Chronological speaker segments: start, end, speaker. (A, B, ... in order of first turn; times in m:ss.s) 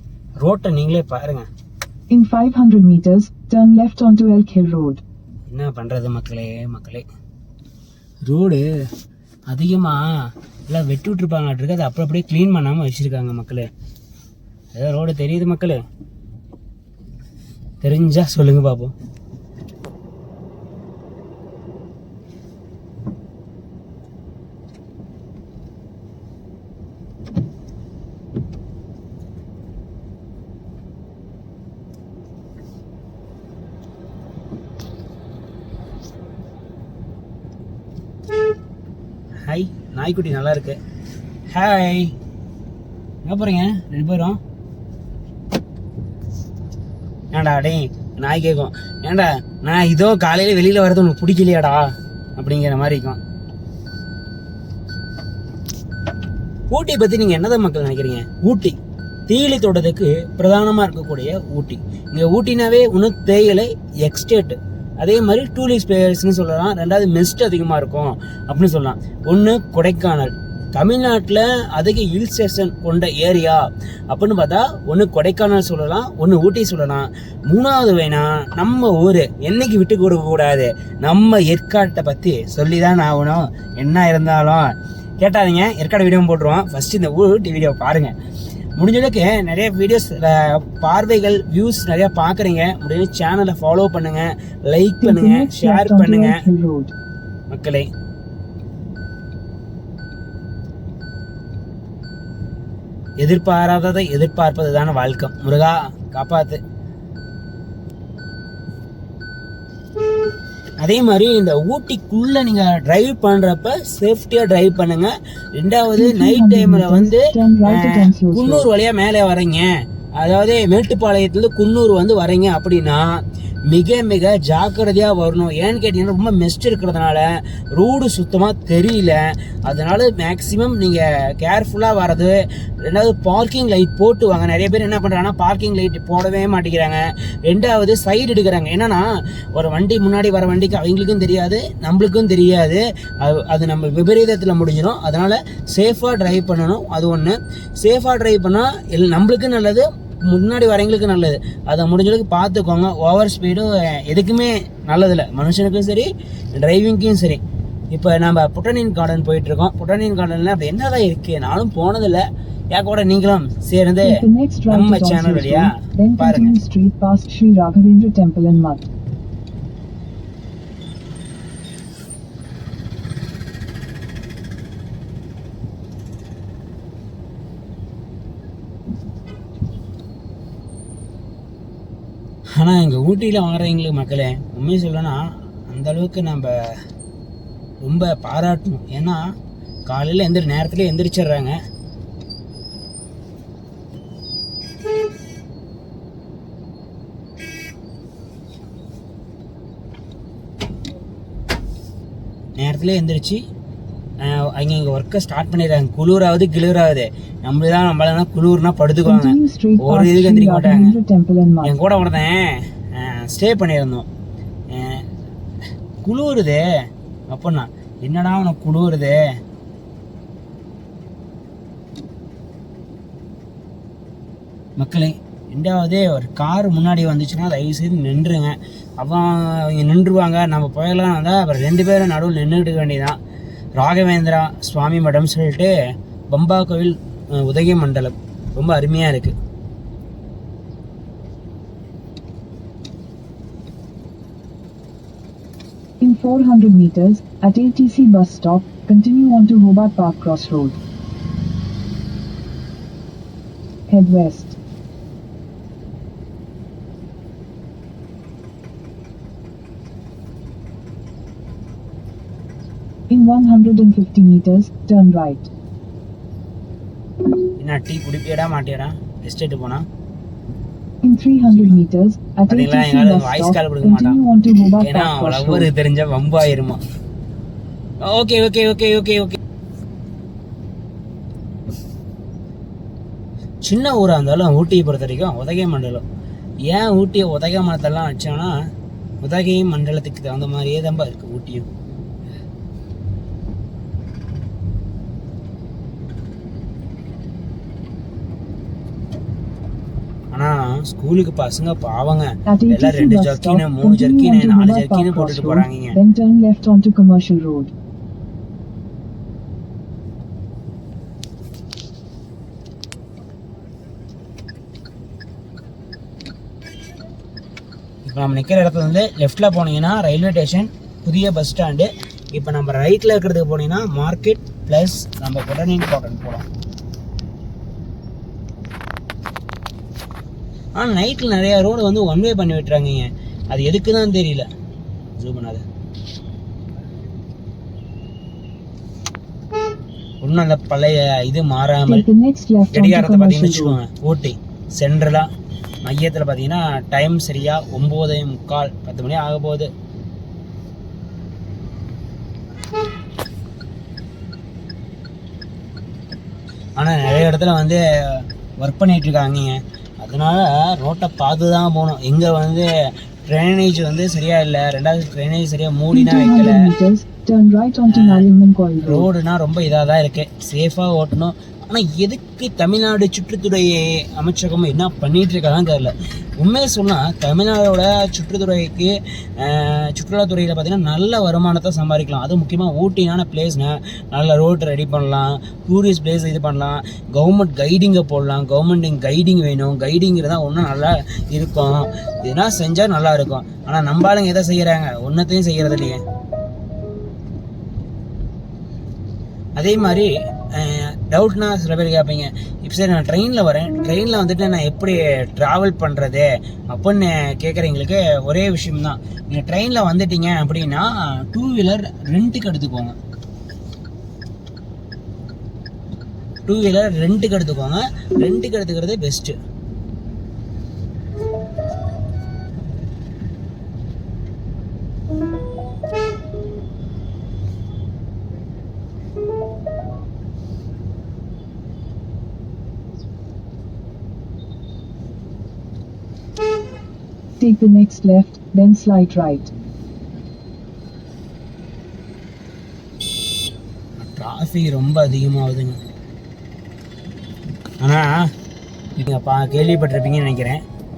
0:00.4-0:01.5 A
0:02.1-0:05.0 B
0:05.5-0:07.0 A
0:08.2-0:08.6 A
0:09.5-0:10.1 A
0:10.7-0:13.7 A
0:14.7-0:15.8 A
0:17.8-0:18.9 A
0:39.4-0:40.8 A
0:41.5-0:42.1 A
0:43.2-0:44.4 A
0:47.3-0:51.8 A
0:52.4-0:53.2 A
0:56.7-0:58.8 A
0:59.3-1:24.6 A
1:25.2-1:28.1 A
1:28.8-1:36.4 A
1:35.0-1:36.9 B
1:37.5-1:37.9 A
1:43.2-1:46.6 A
1:50.8-1:59.6 A
1:55.9-1:58.7 B
2:00.2-2:37.4 A
2:37.9-2:46.6 A
2:44.0-2:48.9 B
3:02.6-3:06.5 A
3:07.8-3:09.2 A
3:09.9-3:11.5 A
3:22.6-3:23.4 A
3:24.2-3:31.0 A
3:29.0-3:31.7 B
3:31.6-3:34.1 A
3:34.7-3:35.0 A
3:36.0-3:36.6 A
3:37.3-3:39.2 A
3:44.8-3:53.2 A
3:53.8-3:55.7 A
3:56.3-3:59.3 A
4:06.0-4:10.8 B
4:13.9-4:14.6 B
4:23.1-4:25.5 B
4:27.6-4:29.8 A
4:31.0-4:35.7 B
4:31.4-4:31.8 A
4:32.5-4:34.2 A
4:34.8-4:36.8 A
4:38.0-4:39.4 A
4:43.6-4:46.0 A
4:46.7-4:48.5 A
4:49.2-4:51.7 A
5:00.3-5:06.0 A
5:02.4-5:07.7 B
5:18.0-5:26.4 A
5:30.8-5:34.5 A
5:35.2-5:35.6 A
5:40.2-5:42.0 A
5:41.8-5:43.8 B
5:42.7-5:45.3 A
5:45.8-5:49.7 A
5:56.8-6:02.7 A
6:03.3-6:06.6 A
6:05.9-6:09.1 B
6:07.9-6:08.3 A
6:08.8-6:36.0 A
6:39.6-6:53.0 A
6:56.4-6:59.4 A
7:17.4-7:19.5 B
7:24.0-7:25.8 A
7:27.8-7:28.2 A
7:29.0-7:30.6 A